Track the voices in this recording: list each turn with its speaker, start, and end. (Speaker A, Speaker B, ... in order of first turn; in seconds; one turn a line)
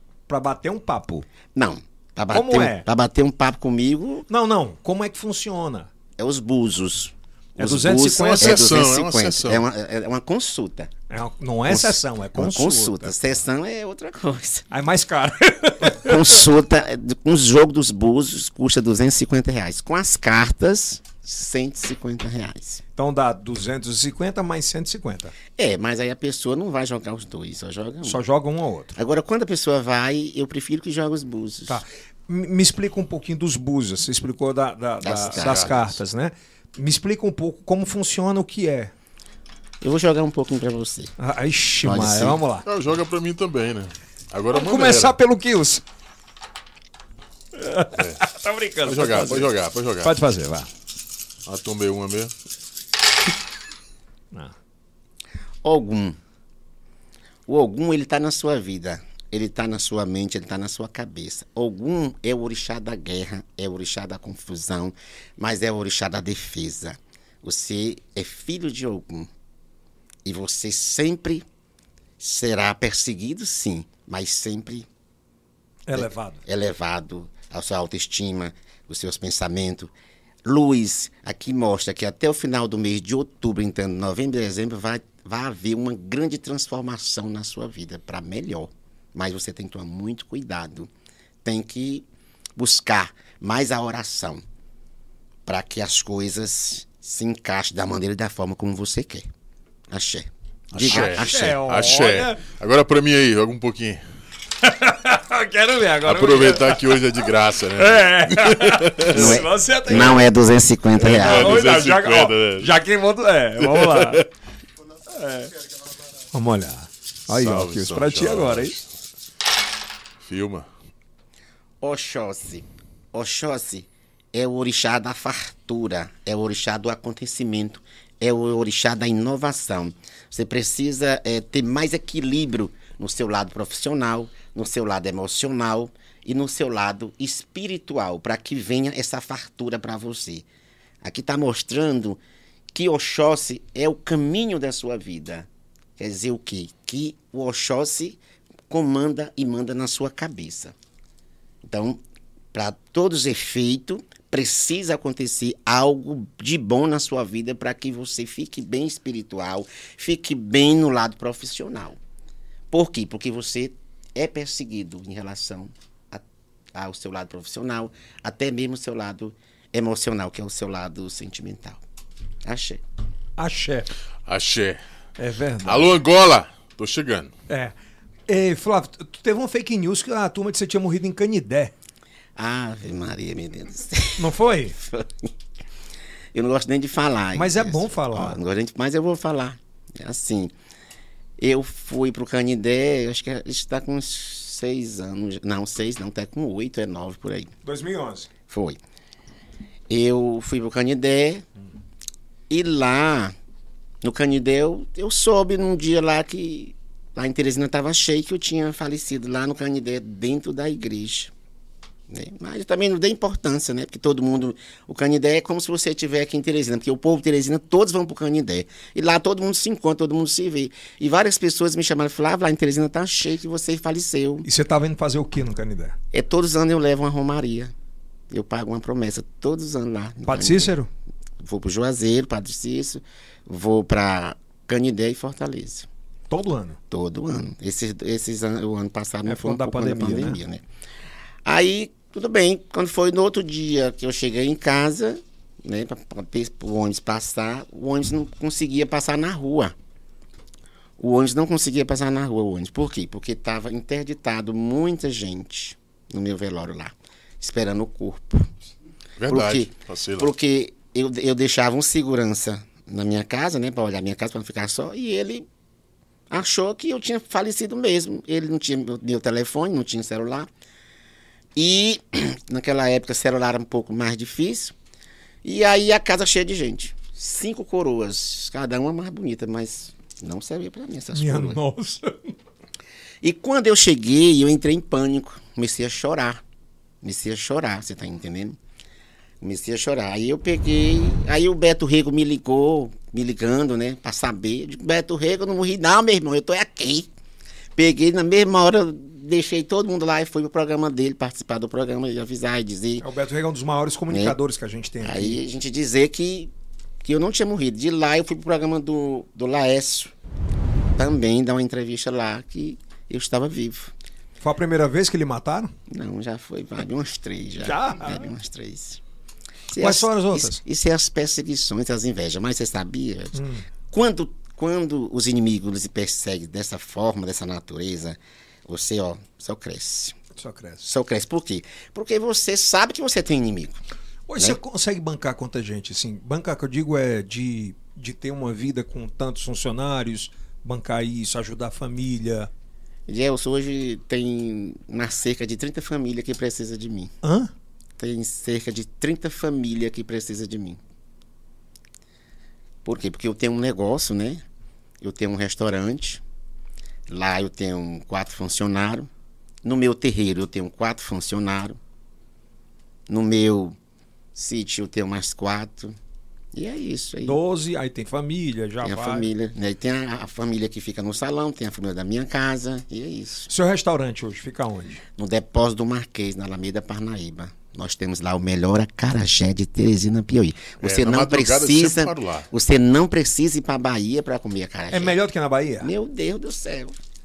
Speaker A: 0.3-1.3
Speaker B: 1.5-4.2
Speaker A: 2.3-2.9
Speaker A: 4.3-5.9
Speaker B: 6.2-10.9
Speaker A: 7.6-8.6
Speaker C: 8.4-9.7
Speaker A: 11.1-13.1
Speaker B: 11.7-14.6
Speaker A: 14.7-16.4
Speaker B: 15.9-22.8
Speaker A: 22.9-25.4
Speaker B: 25.6-28.2
Speaker A: 28.0-28.9
Speaker B: 28.9-31.8
Speaker A: 31.7-38.9
Speaker B: 35.0-35.9
Speaker C: 35.3-35.8
Speaker B: 39.8-41.1
Speaker A: 41.2-42.6
Speaker B: 41.8-42.4
Speaker C: 42.6-45.1
Speaker A: 44.5-45.8
Speaker A: 47.5-49.5
Speaker C: 48.0-48.2
Speaker C: 48.8-50.1
Speaker A: 50.0-50.7
Speaker C: 51.5-52.3
Speaker B: 55.6-56.2
Speaker B: 57.5-69.3
Speaker B: 70.2-71.4
Speaker B: 72.2-74.9
Speaker A: 75.9-76.4
Speaker B: 75.9-79.9
Speaker B: 80.4-90.9
Speaker B: 91.4-92.0
Speaker B: 92.6-94.4
Speaker B: 95.5-99.3
Speaker B: 99.9-101.6
Speaker C: 100.7-104.0
Speaker A: 100.9-102.4
Speaker A: 104.6-110.3
Speaker C: 106.0-109.4
Speaker B: 109.1-111.6
Speaker C: 109.9-110.2
Speaker A: 111.0-114.3
Speaker C: 111.0-112.7
Speaker C: 113.6-114.2
Speaker A: 115.1-115.5
Speaker A: 116.3-118.7
Speaker C: 117.3-118.8
Speaker C: 120.2-120.7
Speaker B: 121.8-140.4
Speaker B: 141.0-142.2
Speaker B: 142.7-150.7
Speaker B: 151.6-152.0
Speaker B: 152.5-162.0
Speaker B: 162.7-171.8
Speaker B: 172.4-172.8
Speaker A: 173.4-173.9
Speaker C: 174.2-174.8
Speaker A: 175.2-176.0
Speaker C: 175.6-177.3
Speaker A: 177.5-177.7
Speaker A: 178.3-181.7
Speaker B: 182.3-185.3
Speaker A: 184.2-184.8
Speaker B: 186.3-190.5
Speaker A: 187.3-188.4
Speaker B: 191.4-197.5
Speaker A: 197.6-198.3
Speaker B: 198.5-198.8
Speaker B: 199.9-201.4
Speaker B: 202.5-203.3
Speaker B: 204.0-211.3
Speaker B: 212.1-224.5
Speaker A: 224.4-225.9
Speaker B: 226.1-227.7
Speaker B: 228.3-230.8
Speaker A: 230.2-230.9
Speaker B: 231.4-235.9
Speaker A: 236.3-236.8
Speaker B: 236.9-240.6
Speaker A: 239.2-240.4
Speaker B: 241.4-249.7
Speaker B: 251.0-258.5
Speaker C: 259.2-260.3
Speaker B: 259.3-265.5
Speaker B: 266.3-270.5
Speaker B: 271.5-274.7
Speaker B: 275.4-281.6
Speaker A: 281.1-282.4
Speaker B: 283.2-286.4
Speaker B: 287.0-288.6
Speaker B: 289.4-297.1
Speaker B: 297.8-303.0
Speaker A: 303.0-305.4
Speaker B: 304.1-304.4
Speaker B: 305.0-306.5
Speaker B: 307.0-310.1
Speaker B: 311.0-313.9
Speaker A: 314.4-315.7
Speaker B: 315.9-319.0
Speaker A: 317.6-318.3
Speaker B: 319.7-330.1
Speaker A: 319.8-320.6
Speaker A: 323.3-323.7
Speaker A: 330.4-330.8
Speaker B: 330.8-333.8
Speaker A: 334.3-342.5
Speaker B: 343.1-347.1
Speaker A: 347.2-347.5
Speaker B: 348.0-350.8
Speaker B: 352.8-354.4
Speaker B: 355.0-356.2
Speaker B: 357.1-359.1
Speaker B: 359.6-361.8
Speaker B: 363.1-363.8
Speaker B: 364.3-365.9
Speaker B: 366.5-367.4
Speaker A: 367.2-369.3
Speaker B: 368.8-373.5
Speaker A: 373.5-375.0
Speaker B: 375.1-385.1
Speaker C: 380.8-382.5
Speaker A: 384.9-385.9
Speaker B: 385.8-387.0